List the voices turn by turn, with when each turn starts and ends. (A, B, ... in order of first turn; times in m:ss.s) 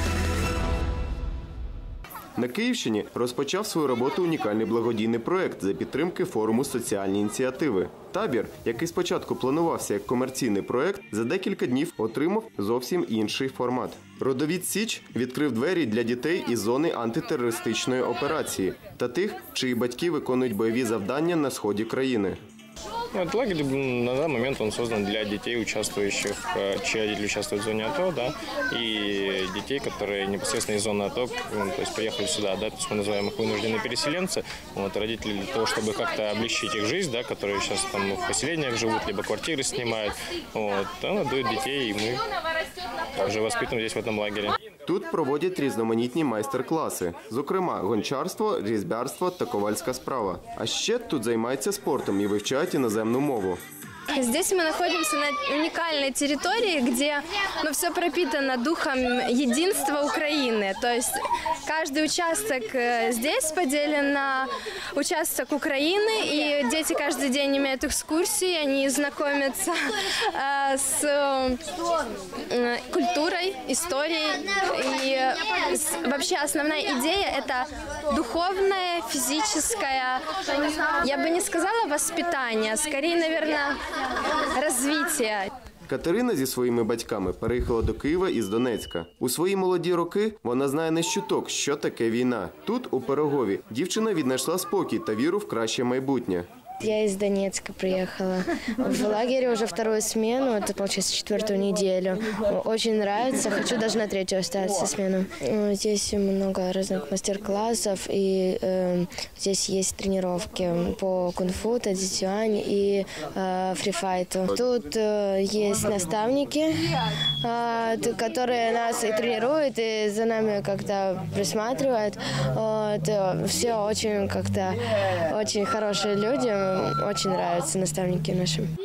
0:02.4-0:22.4 A
0:23.1-0:42.2 B
0:43.2-0:44.6 B
0:44.8-0:53.6 A
0:54.1-1:09.8 C
1:10.3-1:11.6 C
1:12.5-1:20.2 C
1:21.0-1:23.8 C
1:24.5-1:25.5 C
1:25.9-1:36.4 A
1:36.8-1:56.8 D
1:57.4-2:04.8 D
2:05.3-2:08.7 D